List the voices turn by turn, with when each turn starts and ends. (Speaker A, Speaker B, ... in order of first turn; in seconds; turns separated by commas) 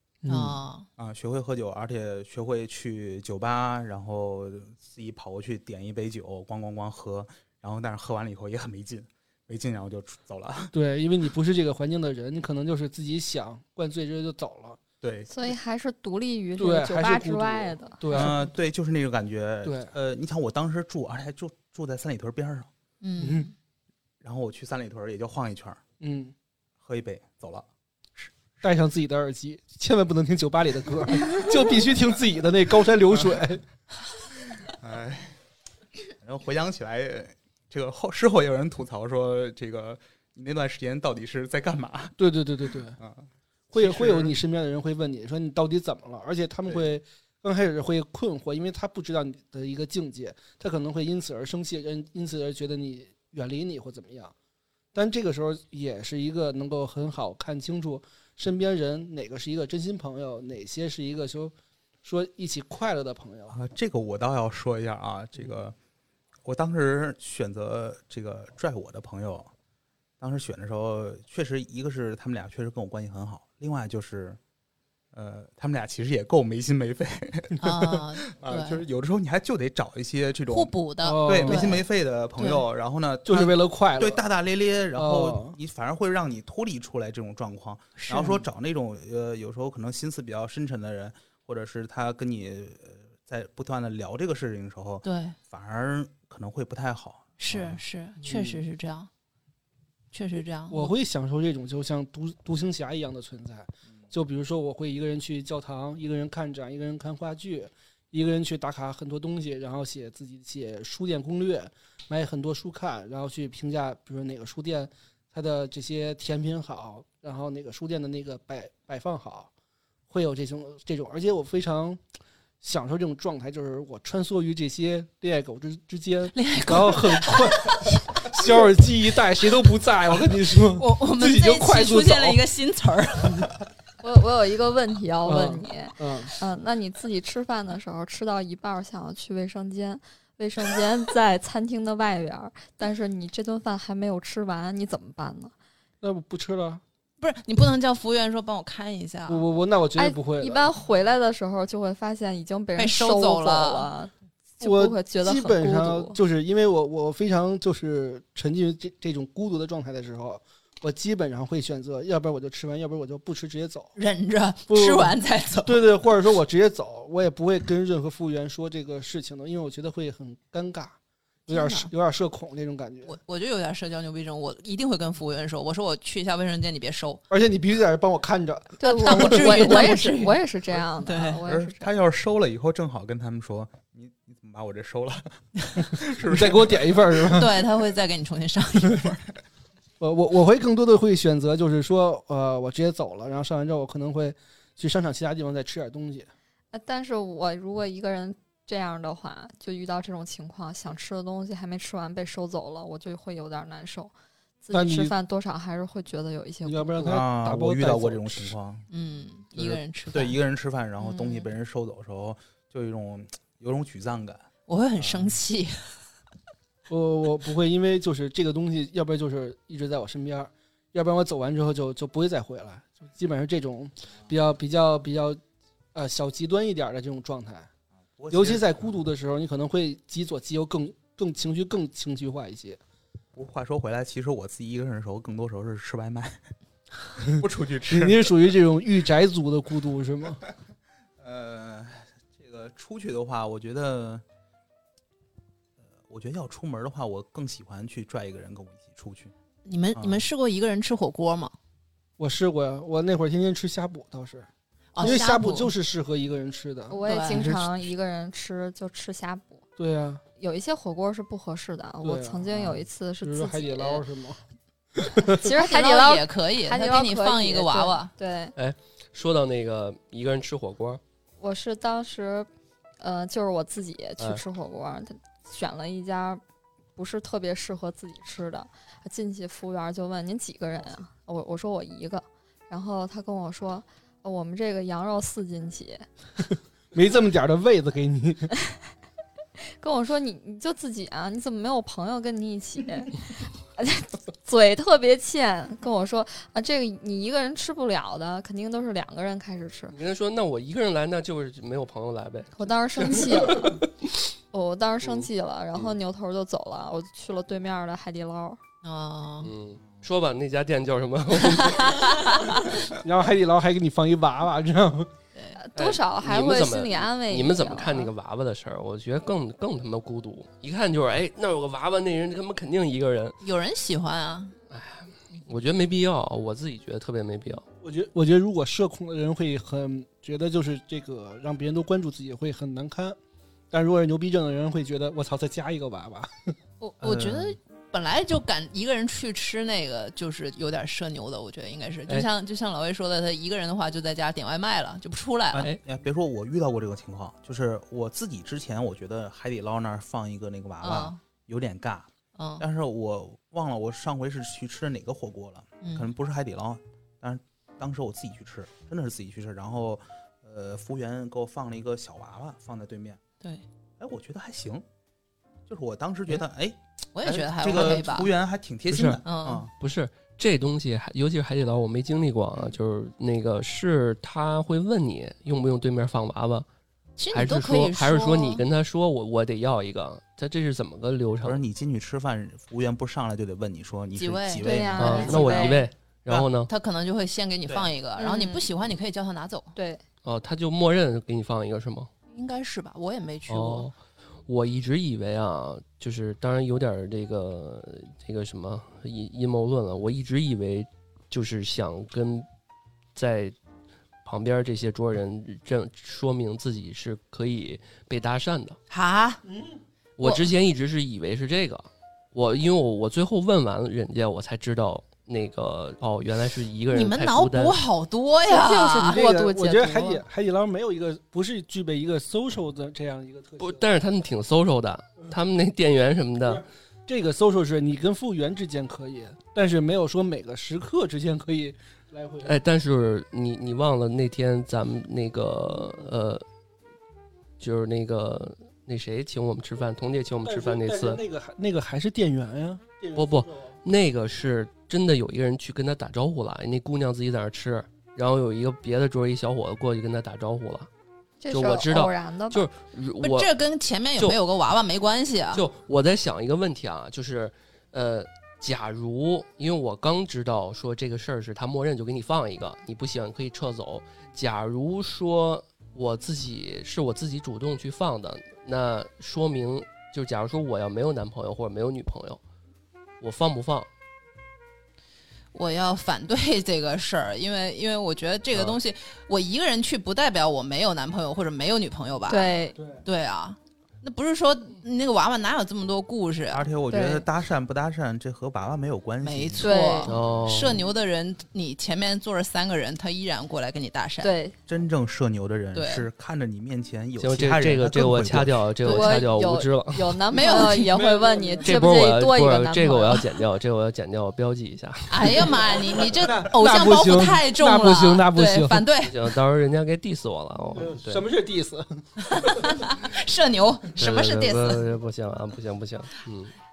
Speaker A: 0.2-0.6, Speaker B: 0.3-0.9, Speaker C: 1.0-10.7, Speaker A: 10.7-14.8, Speaker C: 15.0-15.3, Speaker D: 15.3-18.4, Speaker A: 16.6-18.4, Speaker C: 18.1-22.7, Speaker A: 19.6-19.9, Speaker B: 23.0-23.5, Speaker A: 23.2-23.5, Speaker C: 24.2-25.8, Speaker A: 26.0-26.3, Speaker C: 26.8-28.3, Speaker A: 28.6-33.6, Speaker C: 34.7-35.4, Speaker C: 36.1-42.2, Speaker A: 42.2-43.0, Speaker C: 43.0-44.4, Speaker A: 43.7-54.3, Speaker A: 54.9-63.6, Speaker C: 63.5-65.8, Speaker C: 66.5-69.5, Speaker C: 70.2-74.4, Speaker C: 75.1-77.7, Speaker B: 77.6-78.8, Speaker C: 78.3-97.8, Speaker B: 80.5-81.8, Speaker A: 81.0-81.8, Speaker B: 82.4-82.7, Speaker A: 83.3-84.2, Speaker A: 85.0-85.6, Speaker B: 88.0-88.4, Speaker B: 95.0-95.4, Speaker B: 97.4-99.1, Speaker A: 98.2-98.6, Speaker B: 100.1-100.9, Speaker A: 100.7-119.5, Speaker A: 120.1-122.0, Speaker A: 122.6-132.4, Speaker B: 126.3-127.8, Speaker B: 130.6-133.5, Speaker A: 133.2-133.5, Speaker D: 134.0-145.5, Speaker A: 135.3-136.3, Speaker A: 146.0-146.8, Speaker B: 147.2-149.4, Speaker A: 149.3-150.7, Speaker D: 150.0-156.2, Speaker B: 152.8-153.9, Speaker A: 154.6-163.9, Speaker B: 164.0-165.8, Speaker A: 164.7-171.0, Speaker B: 171.5-171.9, Speaker A: 171.5-173.2, Speaker B: 173.1-177.2, Speaker A: 177.3-180.0, Speaker D: 178.8-181.9, Speaker B: 178.8-180.4, Speaker B: 181.0-181.4, Speaker C: 181.4-187.4, Speaker A: 186.2-187.6, Speaker B: 187.3-189.2, Speaker A: 190.0-196.3, Speaker D: 196.7-204.1, Speaker D: 204.6-207.2, Speaker A: 204.7-205.1, Speaker A: 206.7-208.6, Speaker C: 207.1-208.8, Speaker B: 208.9-210.4, Speaker C: 209.6-214.5, Speaker D: 211.0-211.5, Speaker B: 214.7-215.8, Speaker C: 215.0-215.3, Speaker A: 216.9-225.4, Speaker A: 225.9-227.7, Speaker C: 228.2-228.8, Speaker A: 228.3-232.8, Speaker C: 233.3-236.4, Speaker C: 237.2-238.3, Speaker A: 237.9-240.4, Speaker C: 241.2-244.2, Speaker C: 246.1-249.3, Speaker B: 249.7-251.5, Speaker C: 250.0-250.2, Speaker A: 252.2-254.5, Speaker B: 254.9-255.7, Speaker A: 255.0-257.7, Speaker D: 256.9-259.6, Speaker B: 257.0-257.4, Speaker A: 259.8-260.2, Speaker D: 260.4-264.0, Speaker A: 262.0-264.4, Speaker A: 264.9-265.4, Speaker D: 265.2-268.5, Speaker B: 265.4-268.1, Speaker E: 268.6-271.0, Speaker D: 271.4-272.5, Speaker D: 273.0-276.4, Speaker D: 277.0-286.1, Speaker A: 286.9-288.5, Speaker D: 289.8-300.0, Speaker E: 299.9-302.5, Speaker D: 302.6-303.8, Speaker E: 303.1-304.1, Speaker D: 304.5-308.6, Speaker E: 305.0-306.0, Speaker B: 308.8-309.5, Speaker E: 309.4-312.1, Speaker B: 311.9-312.3, Speaker A: 312.9-315.1, Speaker D: 315.6-318.1, Speaker E: 315.8-323.4, Speaker B: 323.4-324.6, Speaker E: 324.7-327.6, Speaker A: 327.8-333.2, Speaker A: 333.7-336.5, Speaker B: 336.8-345.7, Speaker C: 337.0-337.6, Speaker C: 345.5-352.1, Speaker B: 350.8-351.2, Speaker B: 352.4-352.7, Speaker C: 352.6-363.2, Speaker B: 355.8-356.1, Speaker C: 364.0-364.8, Speaker C: 365.7-369.7, Speaker B: 367.2-368.3, Speaker E: 368.9-369.2, Speaker B: 369.2-369.7, Speaker E: 369.8-376.7, Speaker B: 377.2-378.6, Speaker E: 377.3-381.6, Speaker C: 381.4-385.7, Speaker B: 384.1-385.8, Speaker D: 384.6-385.8, Speaker E: 385.0-386.7, Speaker B: 386.5-389.7, Speaker D: 388.2-388.7, Speaker D: 389.8-390.0, Speaker E: 390.2-392.1, Speaker B: 392.3-393.9, Speaker E: 393.5-393.9, Speaker E: 394.5-402.5, Speaker E: 403.1-403.6, Speaker E: 404.2-408.8, Speaker B: 408.9-409.4, Speaker E: 410.2-417.8, Speaker B: 410.2-410.5, Speaker B: 416.9-419.2, Speaker D: 418.5-420.2, Speaker A: 419.0-423.8, Speaker E: 423.6-426.6, Speaker A: 426.5-432.6, Speaker E: 432.4-436.4, Speaker E: 437.6-441.2, Speaker A: 440.4-443.8, Speaker E: 443.2-450.9, Speaker D: 451.4-452.7, Speaker E: 451.5-453.5, Speaker B: 453.2-455.6, Speaker E: 455.5-472.4, Speaker E: 473.2-473.9, Speaker B: 475.5-482.5, Speaker D: 482.3-482.8, Speaker A: 482.8-483.0, Speaker B: 483.1-486.7, Speaker C: 486.5-489.7, Speaker D: 486.9-487.2, Speaker B: 489.2-494.4, Speaker D: 489.6-490.1, Speaker E: 490.1-490.8, Speaker D: 494.2-494.6, Speaker C: 494.7-498.7, Speaker B: 495.7-496.1, Speaker E: 497.2-500.2, Speaker D: 498.8-503.2, Speaker B: 500.3-500.9, Speaker A: 500.7-501.8, Speaker E: 501.6-505.6, Speaker B: 505.1-509.2, Speaker A: 506.1-508.9, Speaker E: 509.0-511.2, Speaker A: 510.8-512.8, Speaker B: 512.2-514.8, Speaker E: 514.0-516.5